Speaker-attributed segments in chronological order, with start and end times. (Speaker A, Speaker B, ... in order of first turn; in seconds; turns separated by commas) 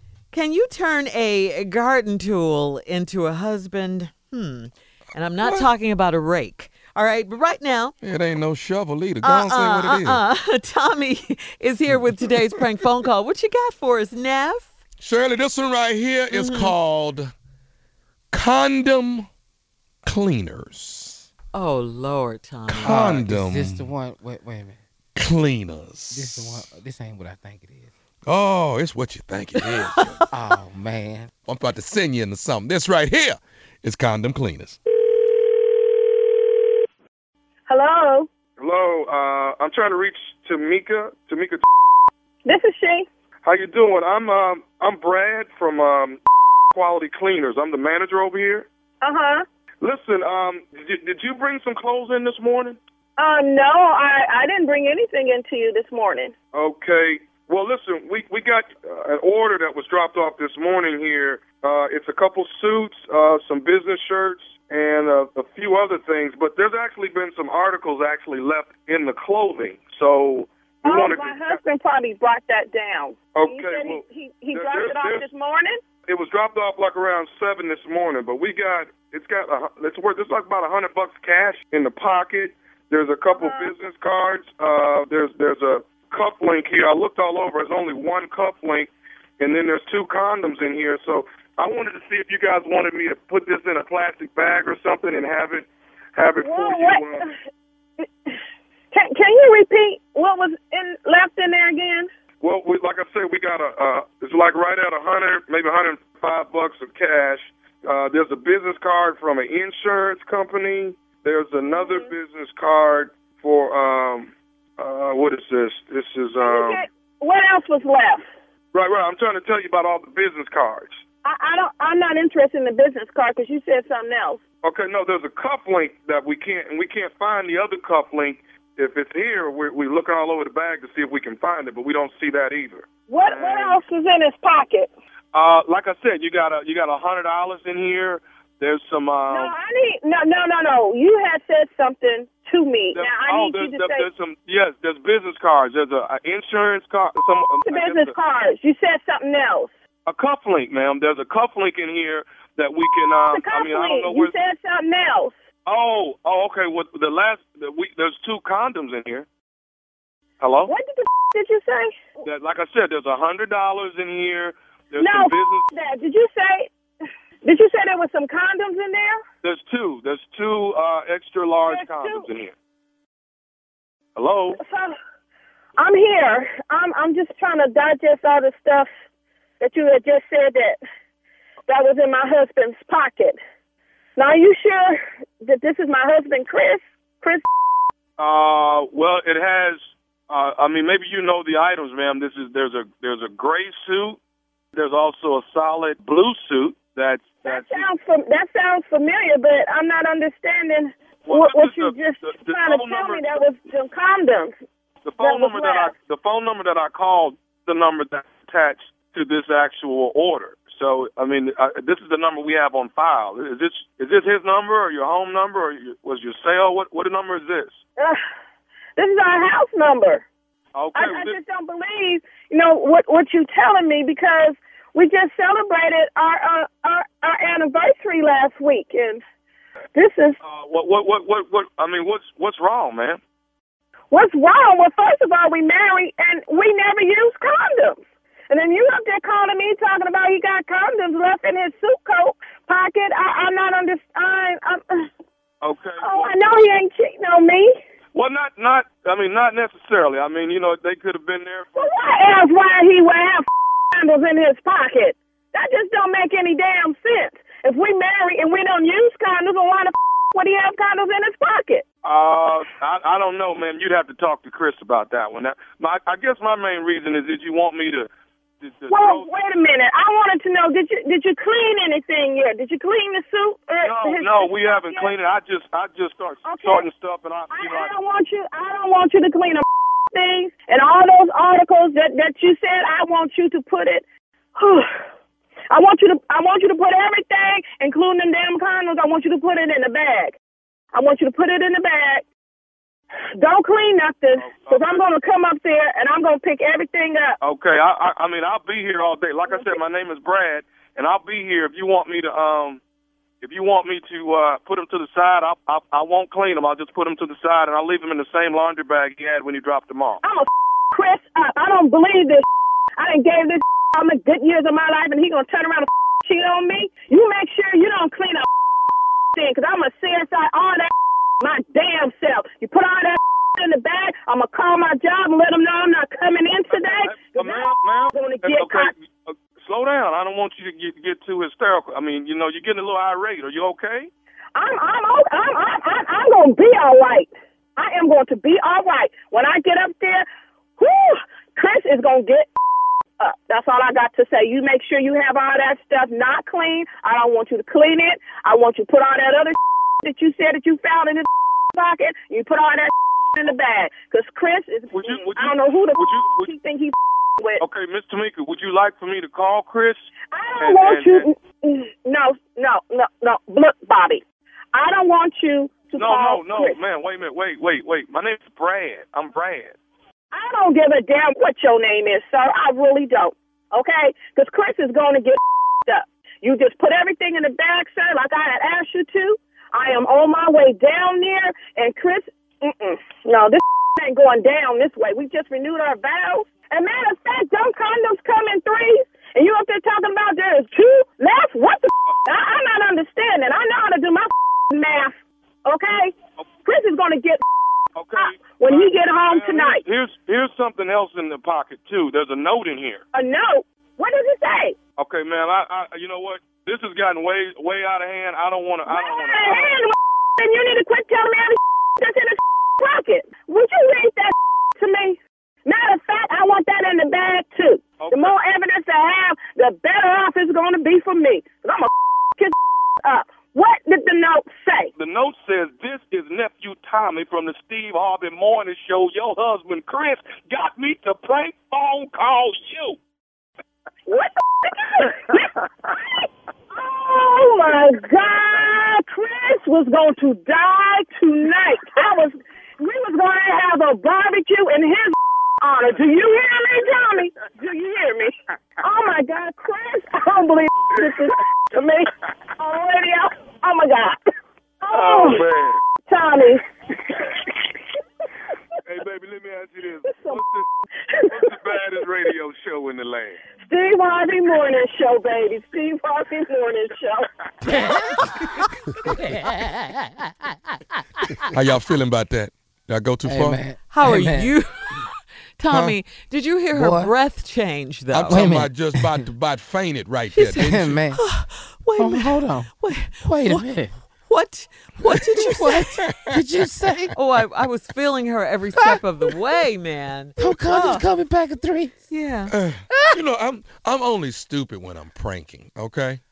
Speaker A: 0.3-7.9, Speaker B: 8.0-10.2, Speaker A: 9.2-14.7, Speaker B: 15.0-17.3, Speaker A: 16.3-16.7, Speaker B: 18.3-19.3, Speaker B: 20.0-21.2, Speaker A: 21.5-23.2, Speaker B: 22.7-23.9, Speaker C: 22.8-24.8, Speaker B: 25.2-26.7, Speaker C: 26.1-27.9, Speaker B: 28.3-30.3, Speaker A: 29.8-30.2, Speaker C: 30.3-31.3, Speaker B: 31.5-34.8, Speaker D: 37.7-38.3, Speaker E: 38.6-41.6, Speaker D: 42.5-43.1, Speaker E: 43.4-46.2, Speaker E: 46.7-48.7, Speaker D: 49.0-49.4, Speaker E: 49.8-52.8, Speaker D: 53.2-56.3, Speaker E: 56.5-71.6, Speaker D: 70.8-75.8, Speaker E: 73.3-75.3, Speaker E: 76.1-97.2, Speaker D: 83.3-83.7, Speaker D: 96.4-97.4, Speaker D: 98.0-98.4, Speaker D: 98.9-102.1, Speaker E: 102.4-116.8, Speaker D: 111.7-112.1, Speaker D: 116.4-118.2, Speaker E: 118.7-121.0, Speaker D: 121.2-124.4, Speaker E: 124.6-133.8, Speaker D: 133.1-134.9, Speaker E: 135.3-139.5, Speaker D: 139.3-144.1, Speaker E: 142.9-148.1, Speaker D: 147.7-149.7, Speaker E: 150.1-154.3, Speaker D: 153.3-155.3, Speaker E: 155.7-159.3, Speaker E: 160.4-160.7, Speaker D: 160.7-162.0, Speaker E: 162.2-165.7, Speaker D: 165.0-166.7, Speaker D: 167.4-169.2, Speaker E: 169.4-172.5, Speaker D: 171.7-172.3, Speaker E: 174.2-174.6, Speaker D: 174.6-174.9, Speaker D: 175.8-178.9, Speaker D: 179.6-180.8, Speaker D: 181.7-183.4, Speaker D: 184.2-187.5, Speaker E: 188.2-194.2, Speaker E: 194.7-197.9, Speaker D: 197.4-204.5, Speaker E: 201.3-203.4, Speaker E: 205.0-217.8, Speaker D: 205.2-205.9, Speaker D: 219.0-220.2, Speaker E: 220.8-221.4, Speaker D: 220.9-229.2, Speaker D: 229.9-230.4, Speaker E: 230.4-233.2, Speaker D: 234.1-245.1, Speaker E: 245.6-246.4, Speaker D: 246.0-247.7, Speaker E: 248.1-251.7, Speaker D: 251.8-261.9, Speaker E: 262.0-268.1, Speaker E: 268.6-269.3, Speaker D: 268.9-275.1, Speaker E: 273.8-277.9, Speaker D: 276.4-276.9, Speaker D: 277.5-284.1, Speaker D: 284.6-284.9, Speaker D: 285.7-290.4, Speaker D: 290.9-292.2, Speaker D: 293.3-297.4, Speaker E: 294.4-295.0, Speaker E: 297.4-302.8, Speaker D: 299.5-299.8, Speaker E: 303.4-310.2, Speaker D: 310.2-312.4, Speaker D: 313.0-318.5, Speaker D: 319.3-328.9, Speaker E: 326.7-334.1, Speaker D: 334.6-340.2, Speaker D: 340.8-342.5, Speaker D: 343.2-357.6, Speaker E: 354.9-356.5, Speaker E: 357.6-361.3, Speaker D: 360.3-366.8, Speaker E: 366.0-369.8, Speaker D: 370.3-397.4, Speaker E: 397.9-403.0, Speaker D: 398.2-399.8, Speaker D: 403.1-404.8, Speaker E: 405.0-409.8, Speaker D: 408.9-424.9, Speaker E: 418.0-418.3, Speaker E: 425.0-433.0, Speaker D: 434.1-454.2, Speaker D: 454.8-455.4, Speaker E: 454.9-455.8, Speaker D: 456.1-456.6, Speaker E: 457.1-457.4, Speaker E: 458.9-460.7, Speaker D: 460.1-460.4, Speaker D: 461.1-461.6, Speaker E: 461.3-463.4, Speaker D: 463.6-467.3, Speaker C: 467.6-468.3, Speaker C: 469.1-470.2, Speaker B: 471.5-473.6, Speaker C: 473.2-474.5, Speaker A: 473.9-478.5, Speaker C: 475.7-476.0, Speaker C: 476.7-477.1, Speaker B: 478.1-481.0, Speaker C: 478.3-479.2, Speaker A: 480.3-483.7, Speaker C: 480.6-481.2, Speaker C: 482.0-484.0, Speaker A: 484.3-486.2, Speaker C: 485.5-487.1, Speaker A: 487.1-491.1, Speaker C: 490.4-492.0, Speaker A: 492.1-492.5, Speaker B: 492.5-496.2